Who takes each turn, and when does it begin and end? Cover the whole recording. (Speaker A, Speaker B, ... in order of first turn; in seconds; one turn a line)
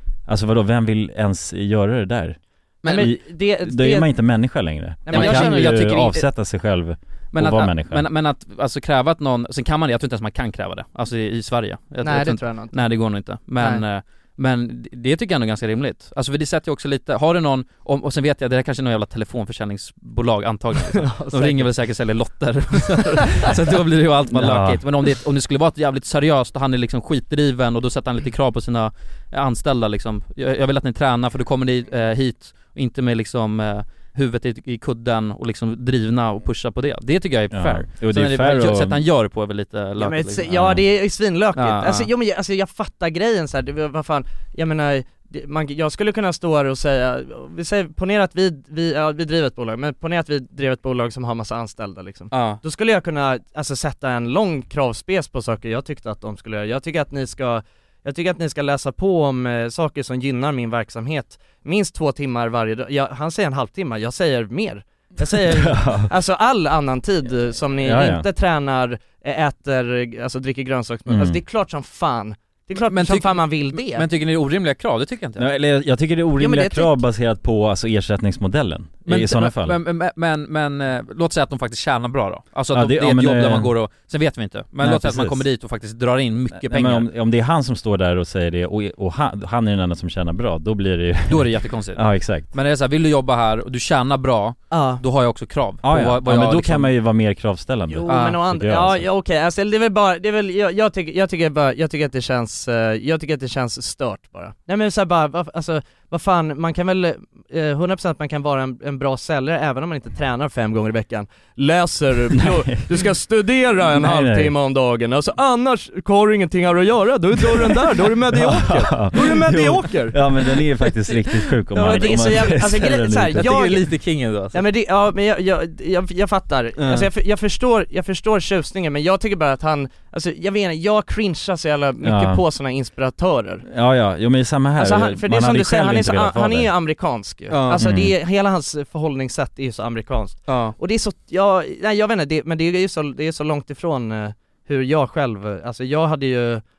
Speaker A: 0.3-8.1
Speaker B: 2.8-3.1
Speaker C: 2.9-4.1
Speaker C: 5.0-5.9
Speaker B: 5.1-6.3
Speaker B: 7.3-40.5
Speaker C: 12.0-12.8
Speaker C: 13.6-13.8
Speaker C: 20.9-21.7
Speaker C: 23.2-23.5
Speaker A: 24.3-24.8
Speaker A: 37.5-39.0
Speaker C: 40.0-74.1
Speaker A: 40.5-40.8
Speaker B: 41.6-42.1
Speaker B: 52.3-52.6
Speaker A: 65.2-66.1
Speaker A: 67.8-68.3
Speaker A: 71.1-71.4
Speaker B: 72.9-75.5
Speaker A: 75.4-79.8
Speaker C: 76.4-77.0
Speaker B: 79.1-87.1
Speaker A: 82.7-83.7
Speaker A: 84.8-85.4
Speaker A: 86.5-92.5
Speaker B: 91.3-96.9
Speaker C: 94.7-95.0
Speaker A: 95.8-99.0
Speaker C: 97.9-120.2
Speaker B: 98.1-98.4
Speaker A: 112.3-113.0
Speaker A: 113.8-114.5
Speaker A: 118.2-123.8
Speaker C: 121.8-123.9
Speaker B: 121.8-122.2
Speaker B: 123.4-124.6
Speaker C: 124.5-133.7
Speaker B: 126.8-127.1
Speaker A: 132.0-132.4
Speaker A: 133.7-136.7
Speaker C: 134.8-146.6
Speaker B: 137.5-137.8
Speaker A: 137.7-138.1
Speaker B: 140.5-140.8